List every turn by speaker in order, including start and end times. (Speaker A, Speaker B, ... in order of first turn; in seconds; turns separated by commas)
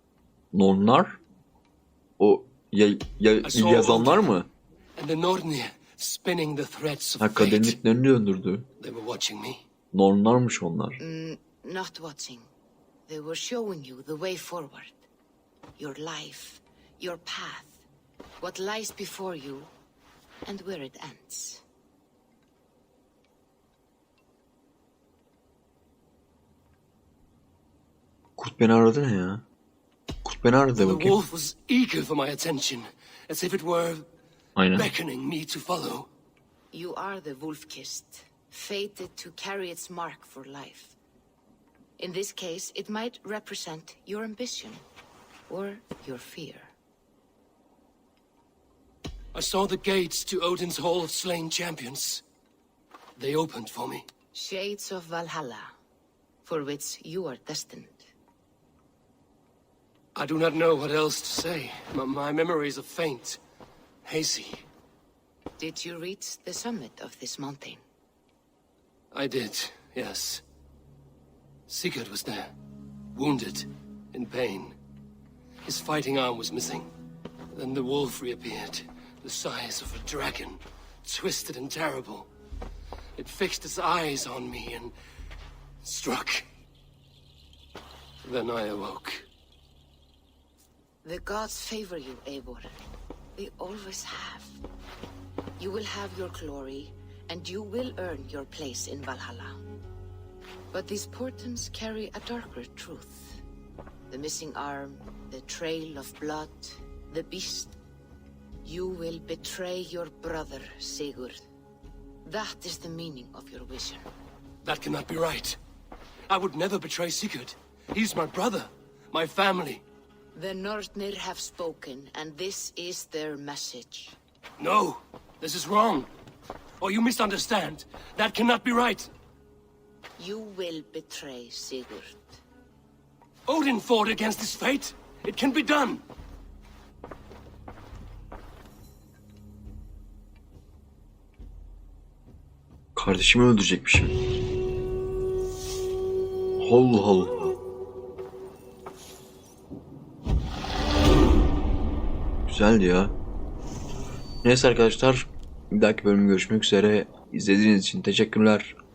Speaker A: 0.5-1.2, Speaker A: 2.2-4.5, Speaker B: 3.4-4.3, Speaker B: 5.0-7.8, Speaker A: 7.2-8.7, Speaker B: 8.8-9.6, Speaker A: 9.9-11.0, Speaker C: 11.0-12.5, Speaker C: 13.1-15.0, Speaker C: 15.8-17.8, Speaker C: 18.4-19.7, Speaker C: 20.5-21.6, Speaker A: 28.4-29.4, Speaker A: 30.2-31.2, Speaker B: 30.8-34.1, Speaker A: 34.6-34.9, Speaker B: 34.7-36.1, Speaker C: 36.7-41.0, Speaker C: 42.0-44.8, Speaker C: 45.5-46.7, Speaker B: 49.3-52.2, Speaker B: 53.2-54.1, Speaker C: 54.3-55.7, Speaker C: 56.5-58.1, Speaker B: 60.1-63.4, Speaker B: 64.0-64.7, Speaker C: 65.6-67.8, Speaker B: 69.1-70.4, Speaker B: 71.7-72.5, Speaker B: 73.1-74.8, Speaker B: 75.7-76.9, Speaker B: 77.5-82.3, Speaker B: 83.2-84.9, Speaker B: 85.8-86.5, Speaker B: 88.2-89.3, Speaker C: 91.0-92.7, Speaker C: 93.4-94.6, Speaker C: 95.6-99.6, Speaker C: 100.7-103.4, Speaker C: 104.1-107.8, Speaker C: 108.6-111.4, Speaker C: 112.2-114.1, Speaker B: 114.6-115.6, Speaker B: 116.3-119.8, Speaker C: 120.3-124.2, Speaker B: 124.6-126.1, Speaker B: 126.8-129.1, Speaker C: 130.2-132.4, Speaker B: 133.5-136.0, Speaker A: 142.9-144.2, Speaker A: 146.6-147.5, Speaker A: 152.5-153.1, Speaker A: 154.4-158.7